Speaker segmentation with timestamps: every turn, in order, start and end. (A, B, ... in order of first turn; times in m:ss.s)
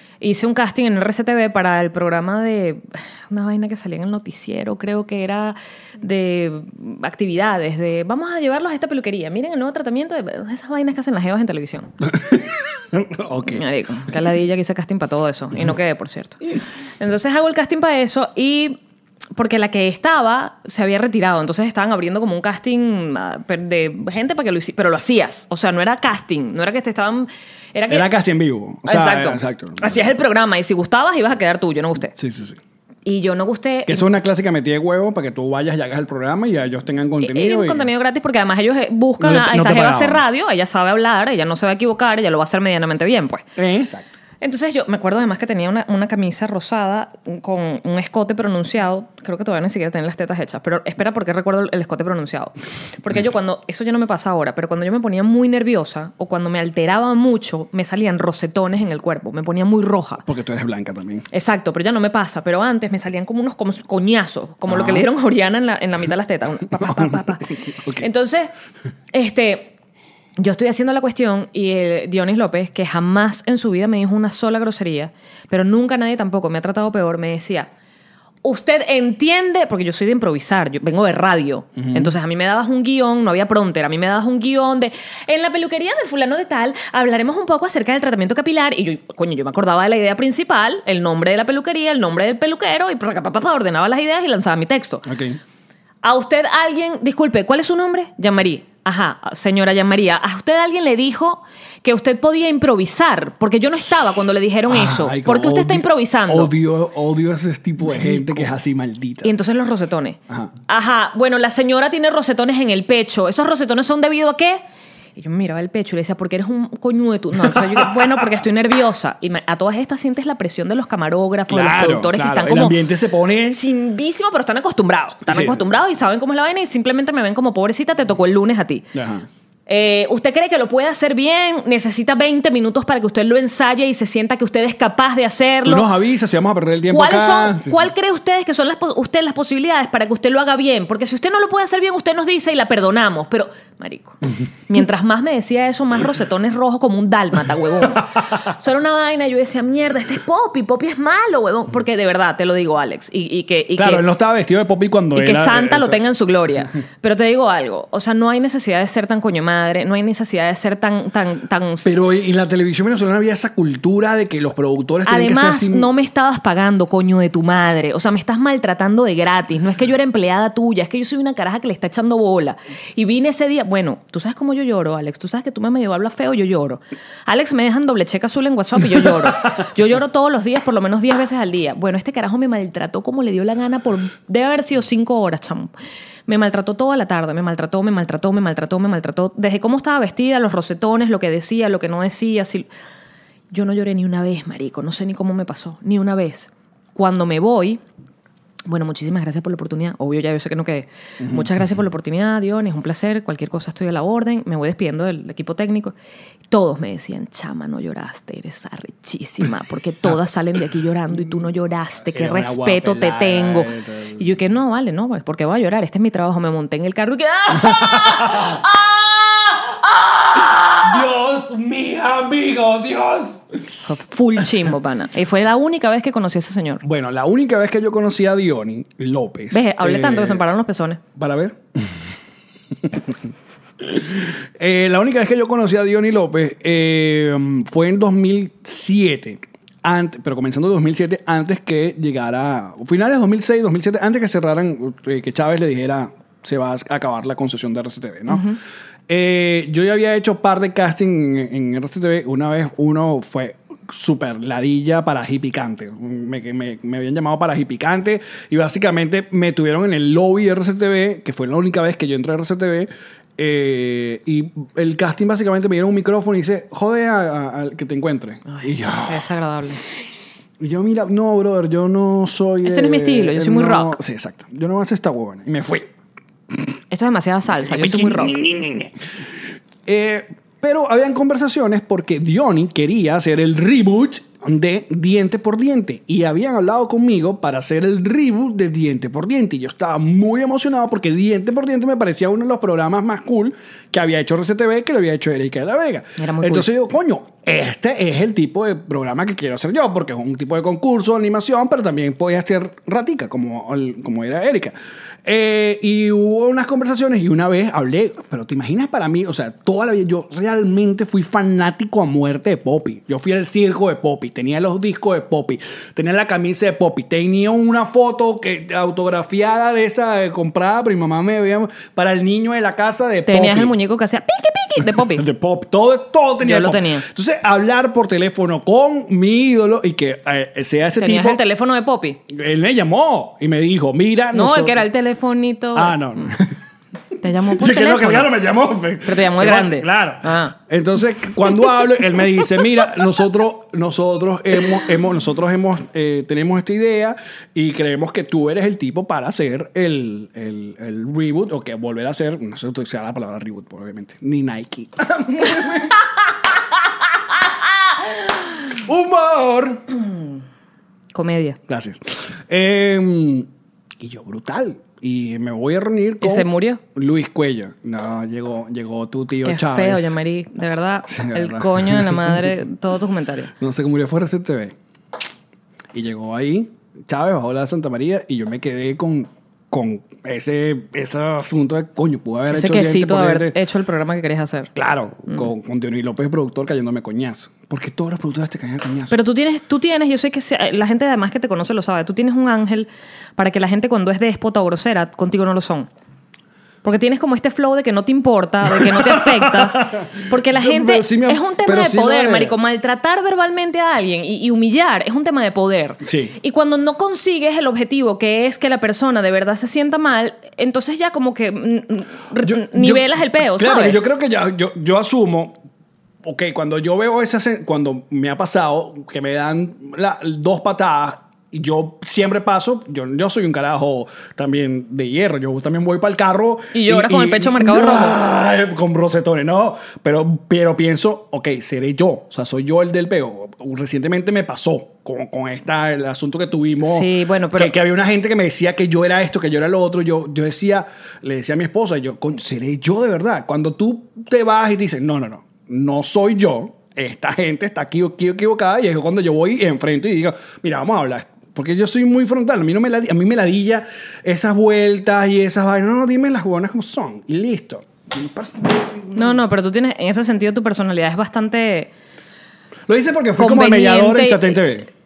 0:00.2-0:11.9 A
0:12.0-0:13.6 B
0:13.5-0:16.4 A
0:17.0-0:18.8 A
0:19.3-0:28.1 A
0:27.9-0:30.1 B
0:28.8-0:32.1 A
0:32.2-0:32.6 B
0:33.0-0:34.1 A
0:33.8-0:37.9 B
0:37.2-0:43.5 A
0:39.2-0:40.2 B
0:43.6-0:44.1 B
0:44.4-1:00.2 A
1:00.2-1:01.3 B
1:01.3-1:08.5 A
1:04.7-1:05.0 B
1:06.8-1:08.1 B
1:09.1-1:09.7 A
1:10.4-1:17.7 A
1:18.4-1:35.1 A
1:21.8-1:22.1 B
1:35.0-1:35.4 B
1:36.0-1:46.5 A
1:44.7-1:49.3 B
1:47.9-1:48.5 A
1:49.2-1:54.6 A
1:55.2-2:02.8 A
1:57.4-1:58.2 B
2:01.5-2:03.6 B
2:03.5-2:08.9 A
2:05.3-2:05.6 B
2:08.9-2:09.3 B
2:09.7-2:15.9 A
2:15.6-2:17.8 B
2:16.9-2:34.0 A
2:33.8-2:36.0 B
2:35.1-2:41.9 A
2:41.8-2:45.9 B
2:45.0-3:05.7 A
3:06.3-3:12.7 A
3:13.5-3:17.8 A
3:18.7-3:25.9 A
3:21.2-3:21.5 B
3:26.5-3:41.0 A
3:32.1-3:34.3 B
3:37.5-3:38.6 B
3:40.8-3:43.4 B
3:43.8-3:46.8 A
3:46.8-3:50.4 B
3:49.5-3:51.0 A
3:51.1-3:51.9 B
3:52.8-3:53.1 B
3:53.8-4:08.6 B
4:08.3-4:08.6 A
4:09.1-4:29.3 B
4:28.5-4:29.8 A
4:30.6-4:35.9 B
4:32.6-4:34.0 A
4:36.9-4:38.4 A
4:37.5-4:39.0 B
4:39.8-5:23.7 B
4:56.2-4:56.7 A
5:23.3-5:25.2 A
5:25.1-5:31.4 B
5:26.4-5:27.0 A
5:31.0-5:32.2 A
5:32.3-5:34.8 B
5:34.3-5:36.3 A
5:35.7-5:36.6 B
5:37.2-5:38.3 A
5:37.5-5:56.0 B
5:39.0-5:40.5 A
5:41.5-5:41.8 A
5:58.7-5:59.9 B
6:01.1-6:01.6 A
6:01.7-6:03.5 B
6:04.0-6:10.2 B
6:06.2-6:06.8 A
6:09.4-6:13.5 A
6:11.1-6:12.5 B
6:13.6-6:14.8 B
6:15.9-6:23.6 B
6:22.5-6:24.7 A
6:24.7-6:29.2 B
6:29.1-6:35.9 A
6:36.8-6:54.0 A
6:38.7-6:42.6 B
6:46.0-6:46.4 B
6:52.4-6:55.6 B
6:56.2-7:39.4 B
7:06.7-7:08.2 A
7:16.8-7:17.7 A
7:39.1-7:41.9 A
7:42.9-7:44.9 B
7:43.4-7:44.6 A